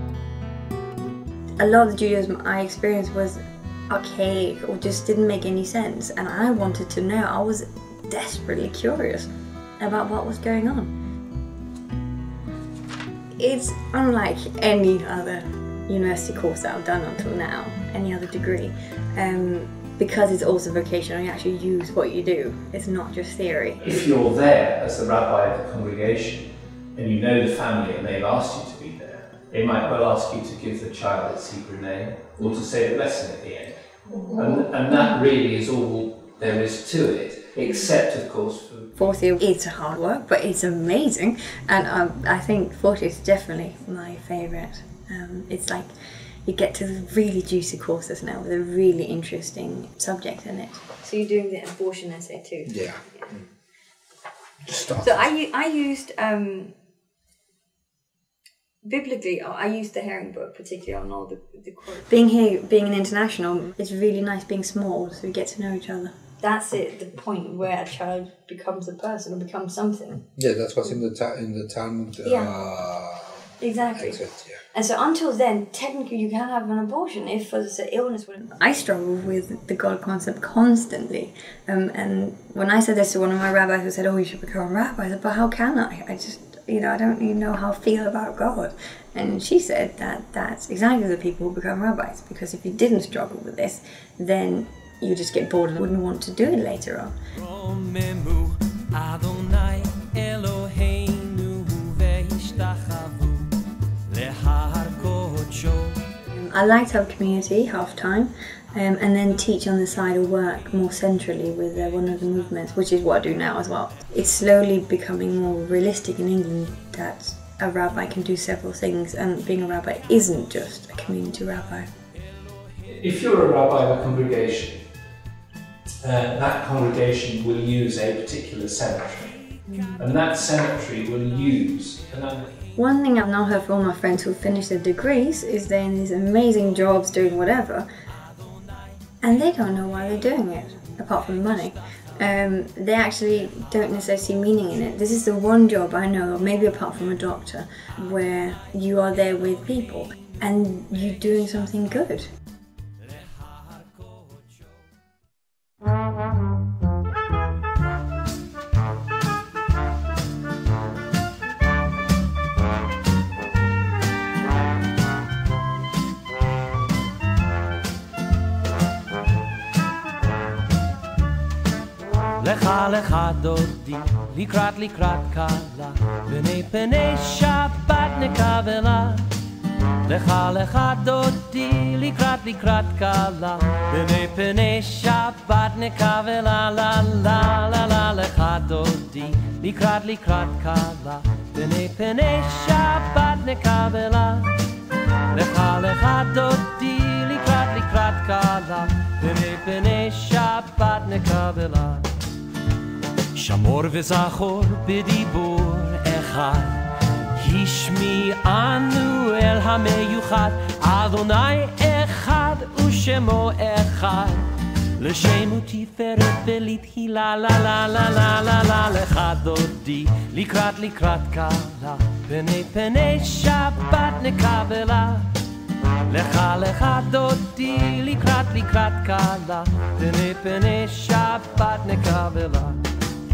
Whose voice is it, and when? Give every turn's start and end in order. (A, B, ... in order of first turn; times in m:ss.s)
0:01.6-0:10.9 A
0:13.4-0:23.9 A
0:23.8-0:38.9 B
0:34.1-0:34.4 A
0:39.0-0:45.9 A
0:46.4-0:53.3 A
0:52.7-0:53.0 C
0:54.6-0:55.3 C
0:55.0-0:56.7 A
0:58.8-1:10.2 A
1:10.4-1:14.6 C
1:12.2-1:12.5 A
1:13.6-1:14.2 A
1:14.7-1:37.1 A
1:37.3-1:43.5 D
1:44.1-1:46.0 D
1:46.3-2:01.9 A
2:02.9-2:04.8 B
2:06.0-2:09.4 B
2:09.7-2:10.0 A
2:10.0-2:12.4 B
2:12.8-2:17.9 A
2:19.2-2:32.3 A
2:33.4-2:34.2 D
2:52.4-2:59.3 D
3:00.0-3:14.5 D
3:15.3-3:22.1 D
3:23.3-3:45.3 D
3:46.1-3:52.8 D